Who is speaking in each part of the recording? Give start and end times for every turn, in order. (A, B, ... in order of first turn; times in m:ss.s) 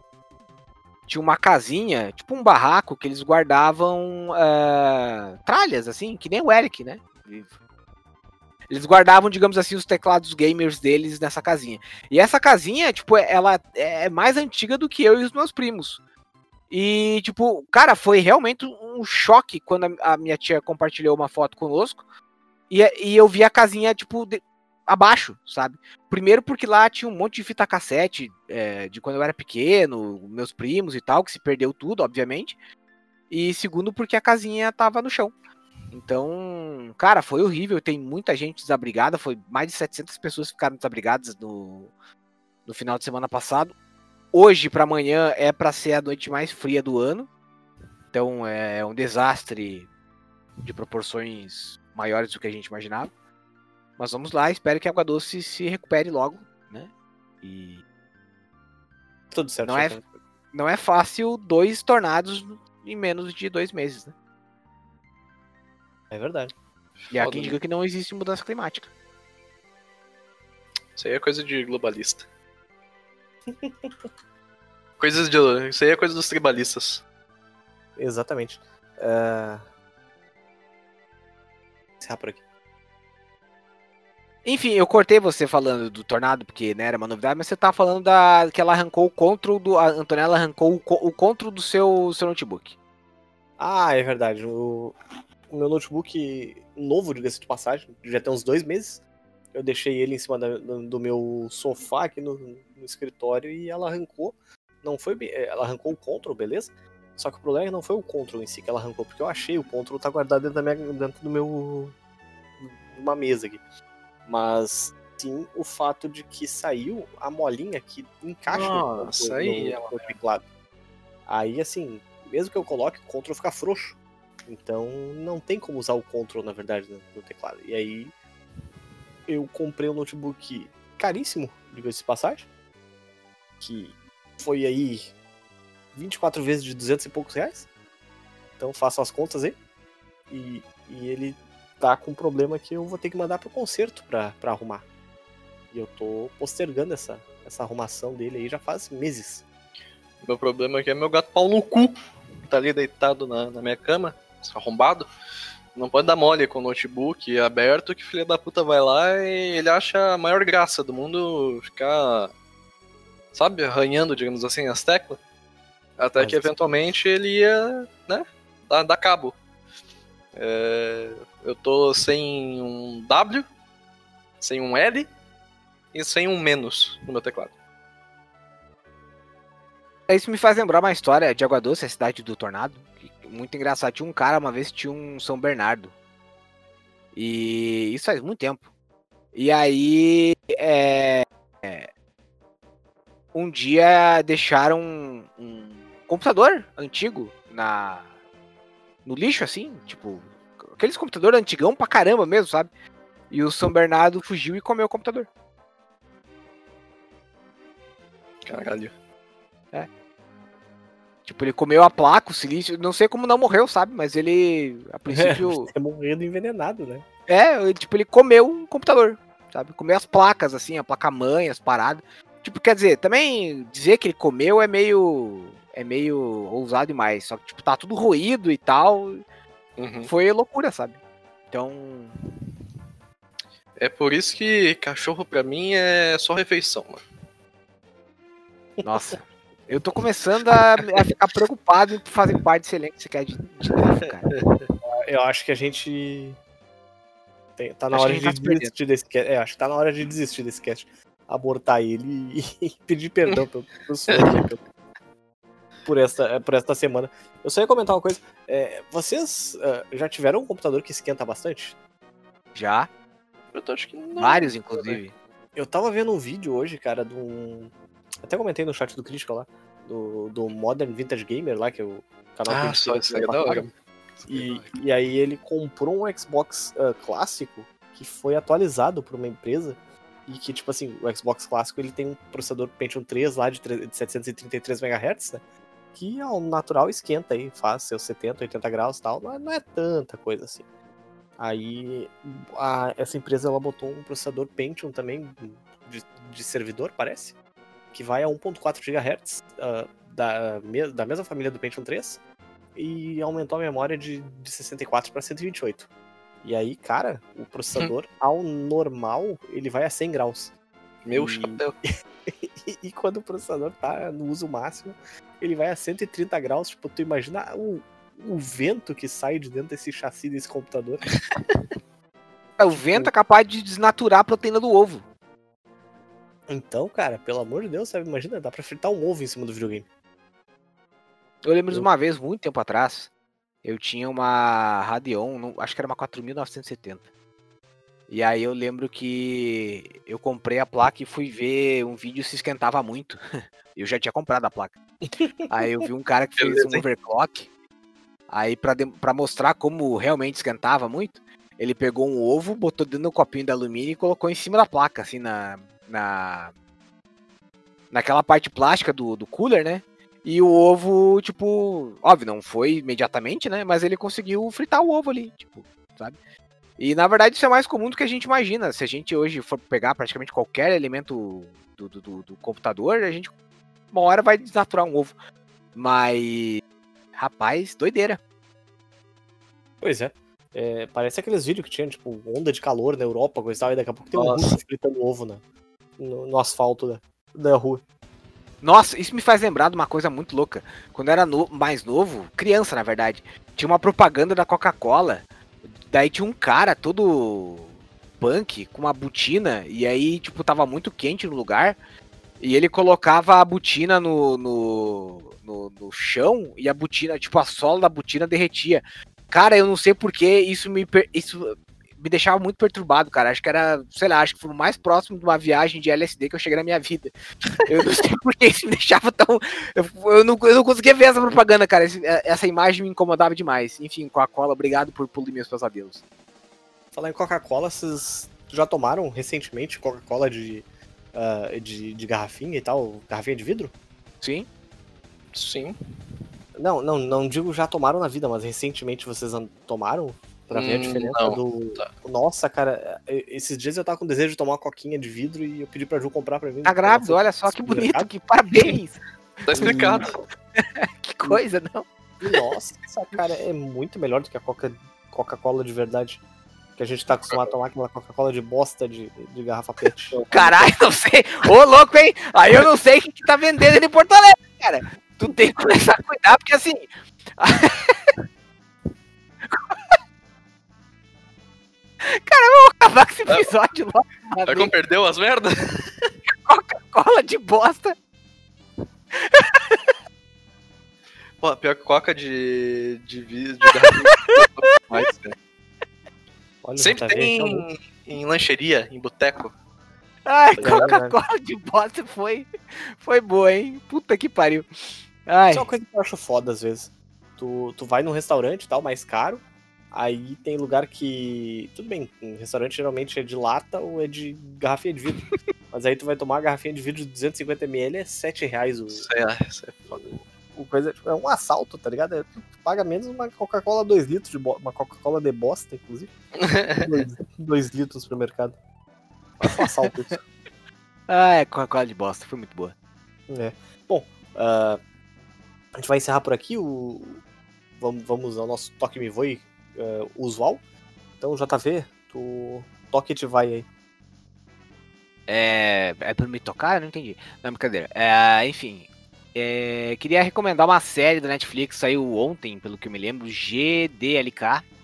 0:01.1-0:07.5 A
0:08.7-0:16.0 A
0:16.7-0:22.0 A
0:22.7-0:32.6 A
0:33.3-0:35.3 A
0:35.9-0:41.9 A
0:42.6-0:43.7 A
0:44.3-0:47.3 A
0:48.1-0:49.9 A
0:50.6-0:53.1 A
0:54.0-0:56.9 A
0:57.4-0:57.8 A
0:59.3-1:00.1 B
0:59.6-1:00.0 A
1:00.5-1:04.1 A
1:06.1-1:06.5 B
1:07.1-1:07.6 C
1:07.1-1:08.9 A
1:11.0-1:12.2 C
1:13.5-1:13.9 B
1:15.0-1:17.0 C
1:18.0-1:19.6 B
1:22.0-1:22.4 B
1:24.4-1:32.8 A
1:33.6-1:35.0 B
1:35.5-1:39.0 B
1:39.5-1:51.9 B
1:52.6-1:53.6 B
1:54.3-2:00.4 B
1:58.5-2:00.2 C
2:01.3-2:08.1 B
2:09.3-2:12.5 B
2:13.6-2:15.1 B
2:15.9-2:17.7 B
2:18.6-2:19.6 B
2:20.3-2:24.8 B
2:25.7-2:29.4 B
2:30.2-2:32.0 C
2:32.5-2:35.1 C
2:35.7-2:42.3 C
2:43.3-2:45.2 C
2:46.0-2:49.3 C
2:46.2-2:46.5 B
2:50.3-2:53.4 C
2:54.4-2:55.1 C
2:55.9-2:57.5 C
3:00.1-3:05.9 A
3:07.1-3:08.6 A
3:09.3-3:11.9 A
3:13.3-3:18.1 A
3:19.0-3:22.7 A
3:23.3-3:25.3 A
3:28.4-3:28.9 C
3:31.2-3:35.7 A
3:35.1-3:37.0 B
3:37.3-3:49.2 A
3:49.8-3:50.1 C
3:50.0-3:51.0 A
3:51.5-3:52.1 A
3:53.8-3:57.0 C
3:58.8-4:04.3 A
4:04.8-4:06.4 B
4:07.6-4:14.6 B
4:07.9-4:08.7 A
4:14.1-4:14.4 C
4:15.8-4:21.8 B
4:22.5-4:22.9 A
4:23.5-4:25.0 C
4:24.2-4:25.1 A
4:25.6-4:27.7 B
4:28.2-4:33.7 B
4:32.5-4:34.7 C
4:34.3-4:45.4 B
4:45.9-4:50.6 B
4:51.4-4:57.3 B
4:57.9-5:02.2 B
5:02.7-5:05.9 B
5:06.4-5:10.5 B
5:11.0-5:11.7 C
5:11.1-5:11.6 B
5:12.3-5:21.0 B
5:22.6-5:25.0 A
5:26.5-5:29.8 B
5:31.4-5:33.1 A
5:33.6-5:37.0 A
5:38.1-5:43.2 A
5:43.7-5:44.8 A
5:45.2-5:45.5 B
5:45.5-5:47.5 A
5:46.4-5:46.8 C
5:48.3-5:56.5 A
5:57.9-6:06.2 A
6:06.8-6:13.3 A
6:13.9-6:15.1 A
6:15.7-6:16.6 A
6:17.1-6:18.2 A
6:19.8-6:25.4 B
6:24.1-6:24.6 C
6:26.0-6:27.8 B
6:28.6-6:35.2 A
6:35.8-6:41.8 A
6:42.4-6:57.1 A
6:57.7-7:06.0 A
7:06.9-7:13.7 B
7:14.2-7:14.5 A
7:15.3-7:15.8 C
7:16.5-7:28.1 B
7:20.5-7:21.9 C
7:26.6-7:29.0 A
7:29.4-7:30.1 C
7:29.5-7:30.1 B
7:29.6-7:31.9 A
7:32.2-7:36.2 B
7:36.8-7:40.6 B
7:40.3-7:48.1 A
7:49.5-7:49.7 A
7:52.0-7:54.7 A
7:54.4-7:55.9 C
7:56.5-7:57.9 A
7:59.2-7:59.8 A
8:01.4-8:05.3 C
8:03.8-8:04.4 A
8:06.6-8:07.6 B
8:06.8-8:09.5 C
8:10.2-8:14.7 A
8:10.6-8:10.8 C
8:10.6-8:11.1 B
8:15.2-8:15.7 A
8:15.5-8:29.1 B
8:28.9-8:30.2 C
8:30.5-8:36.1 B
8:36.4-8:37.0 C
8:36.8-8:38.6 B
8:39.4-8:40.2 B
8:41.1-8:42.7 A
8:43.3-8:44.8 B
8:45.8-8:47.2 B
8:47.8-8:50.6 B
8:51.2-8:53.7 B
8:55.3-9:04.6 A